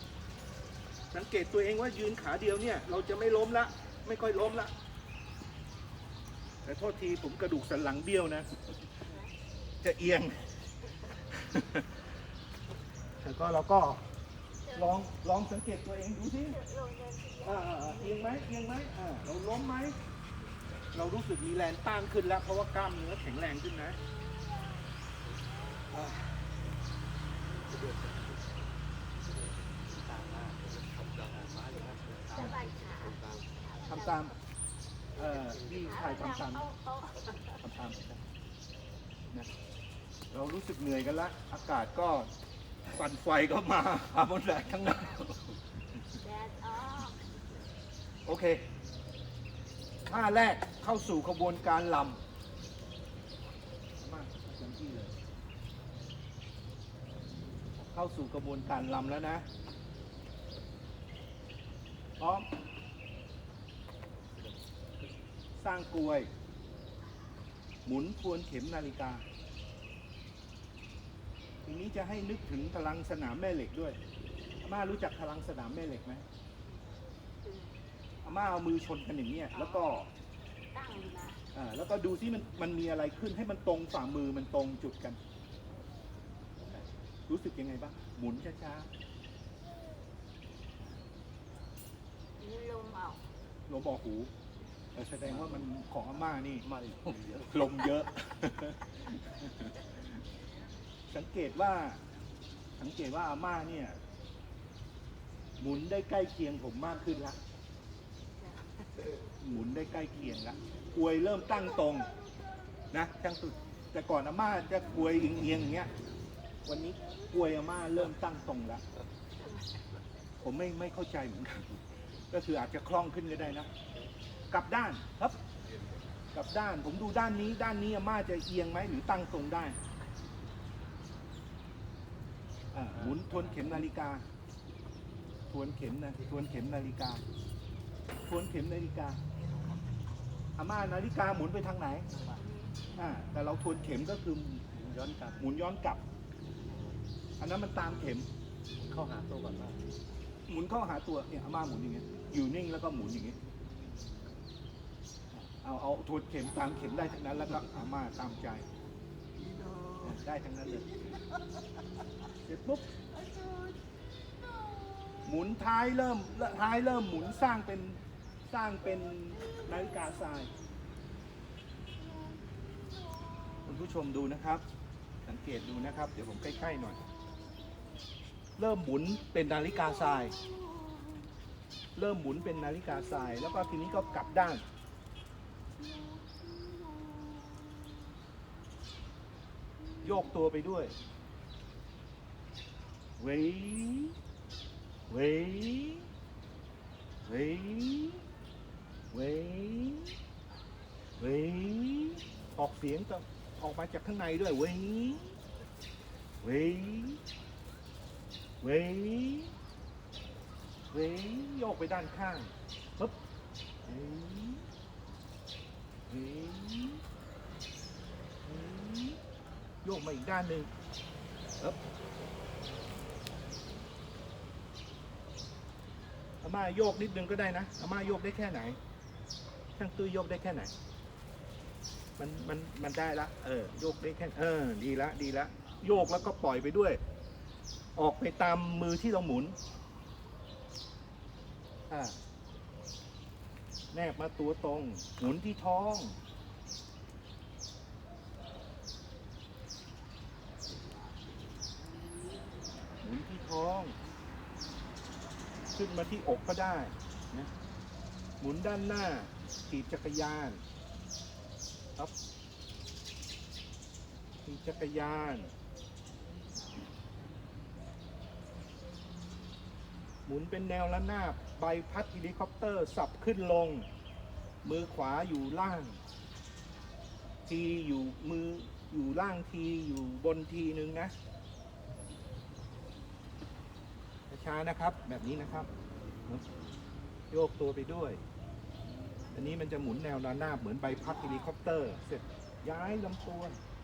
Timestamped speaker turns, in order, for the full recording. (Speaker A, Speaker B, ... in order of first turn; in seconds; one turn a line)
Speaker A: 1.1-4.7
Speaker A: 6.6-8.5
Speaker A: 9.8-10.5
Speaker A: 11.3-12.0
Speaker A: 13.2-14.0
Speaker B: 14.6-15.1
Speaker A: 14.7-16.6
Speaker B: 16.4-18.4
Speaker A: 17.4-19.9
Speaker A: 20.9-24.0
Speaker B: 24.2-24.8
Speaker C: 27.6-28.5
Speaker C: 29.2-33.5
Speaker B: 32.3-34.4
Speaker A: 33.8-34.3
Speaker A: 35.1-36.6
Speaker C: 35.2-35.8
Speaker B: 35.7-37.6
Speaker A: 37.6-38.2
Speaker A: 40.3-42.3
Speaker A: 42.9-45.5
Speaker B: 46.2-47.2
Speaker A: 48.2-48.7
Speaker A: 50.0-52.2
Speaker A: 54.0-55.1
Speaker A: 57.8-59.4
Speaker A: 62.2-62.5
Speaker A: 65.6-66.3
Speaker A: 67.8-69.2
Speaker A: 71.7-74.0
Speaker A: 74.6-76.2
Speaker B: 77.4-77.8
Speaker A: 78.2-80.1
Speaker B: 79.5-79.9
Speaker B: 80.7-81.4
Speaker A: 81.5-85.2
Speaker A: 87.3-88.9
Speaker B: 92.4-93.2
Speaker A: 93.7-94.3
Speaker A: 94.9-96.7
Speaker C: 95.2-95.7
Speaker C: 96.6-97.8
Speaker A: 97.5-99.7
Speaker A: 101.1-102.0
Speaker A: 102.8-104.0
Speaker A: 105.6-107.4
Speaker A: 109.4-112.1
Speaker A: 112.9-115.9
Speaker A: 116.6-118.8
Speaker A: 120.4-121.8
Speaker A: 122.3-123.7
Speaker A: 124.5-125.4
Speaker C: 125.6-126.0
Speaker A: 126.3-129.8
Speaker A: 132.7-134.2
Speaker C: 132.9-133.8
Speaker A: 135.5-137.2
Speaker A: 138.3-139.2
Speaker C: 139.5-139.7
Speaker A: 140.6-142.1
Speaker C: 142.1-142.4
Speaker B: 142.4-142.7
Speaker A: 142.9-144.6
Speaker C: 144.7-145.4
Speaker A: 145.4-146.0
Speaker C: 146.6-147.0
Speaker A: 147.4-148.3
Speaker C: 148.8-149.8
Speaker A: 150.5-153.4
Speaker A: 155.3-158.6
Speaker A: 160.0-161.2
Speaker A: 162.4-162.9
Speaker A: 165.2-170.5
Speaker A: 173.6-174.6
Speaker A: 175.2-177.0
Speaker A: 178.6-180.3
Speaker A: 181.9-184.6
Speaker A: 190.0-190.9
Speaker A: 193.2-194.1
Speaker A: 195.1-196.1
Speaker A: 197.2-198.2
Speaker A: 199.1-200.1
Speaker A: 201.2-205.3
Speaker A: 206.4-207.2
Speaker A: 208.6-209.5
Speaker A: 210.9-213.2
Speaker A: 213.8-214.6
Speaker A: 216.1-217.0
Speaker A: 218.4-219.2
Speaker A: 219.8-220.7
Speaker A: 226.4-228.8
Speaker A: 229.8-230.7
Speaker A: 232.2-237.0
Speaker A: 237.9-239.6
Speaker A: 241.9-242.2
Speaker A: 243.9-246.2
Speaker A: 253.0-253.9
Speaker A: 255.7-257.5
Speaker A: 258.4-260.6
Speaker A: 264.4-265.5
Speaker A: 270.2-273.9
Speaker A: 274.6-276.0
Speaker A: 277.5-281.1
Speaker A: 284.3-285.7
Speaker A: 287.3-288.2
Speaker A: 289.3-293.6